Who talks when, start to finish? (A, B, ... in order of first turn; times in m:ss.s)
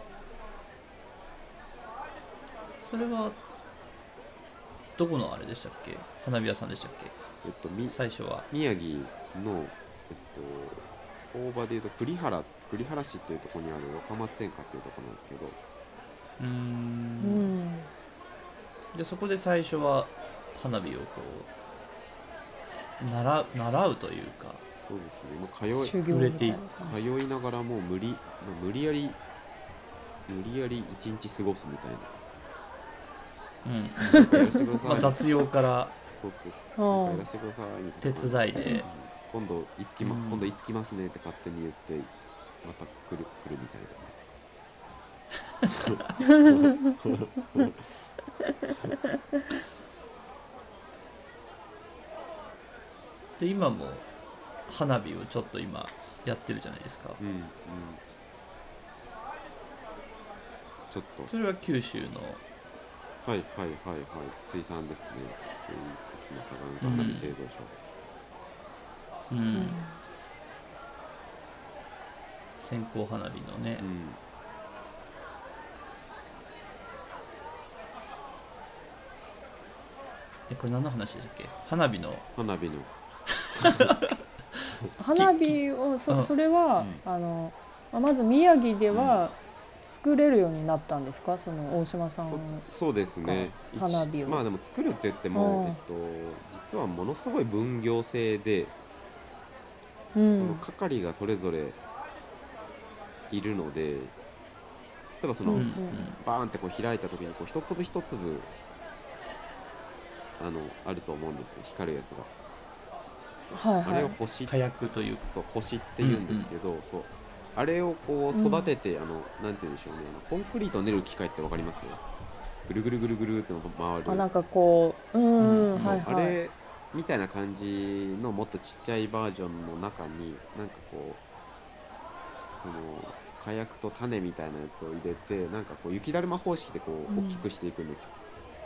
0:02.8-0:03.4 A
0:05.0-0:07.1 A
0:07.4-0:08.0 B
0:07.9-0:08.4 A
0:08.5-0:15.6 B
0:16.4-0:17.5 A
0:17.2-0:17.9 C
0:18.9-0:21.5 A
0:23.0-0:24.6 A
0:24.7-0:26.0 B
0:25.7-0:27.0 C
0:26.0-0:26.6 A
0:26.7-0:29.2 B
0:30.3-0:32.1 B
0:33.6-0:35.9 A
0:34.1-0:35.1 C
0:34.1-0:35.2 B
0:36.1-0:42.1 B
0:36.8-0:37.2 C
0:38.0-0:38.8 A
0:40.0-0:40.4 A
0:42.6-0:44.0 B
0:45.8-0:47.8 B
0:53.4-0:54.1 A
0:54.7-0:57.2 A
0:57.2-0:58.0 B
1:00.9-1:01.3 B
1:01.3-1:02.4 A
1:03.2-1:07.8 B
1:06.8-1:07.3 A
1:09.3-1:09.8 A
1:09.5-1:10.0 C
1:12.6-1:13.8 A
1:13.8-1:14.2 B
1:20.5-1:22.2 A
1:22.4-1:22.9 B
1:23.4-1:26.3 A
1:25.0-1:32.6 C
1:26.8-1:27.0 B
1:28.9-1:29.2 B
1:32.2-1:38.7 B
1:33.2-1:34.4 C
1:35.3-1:35.8 C
1:40.1-1:40.6 C
1:40.3-1:41.8 B
1:43.3-1:44.1 B
1:45.1-1:48.5 B
1:45.4-1:46.0 C
1:45.5-1:46.2 A
1:50.4-1:52.3 B
1:53.4-1:54.6 B
1:53.5-1:54.2 C
1:54.5-1:55.3 A
1:55.2-2:02.0 B
1:56.0-1:56.5 A
1:58.3-1:58.7 C
2:02.6-2:04.2 B
2:04.0-2:06.4 C
2:05.4-2:06.0 A
2:05.7-2:11.2 B
2:12.5-2:18.1 B
2:17.1-2:17.4 C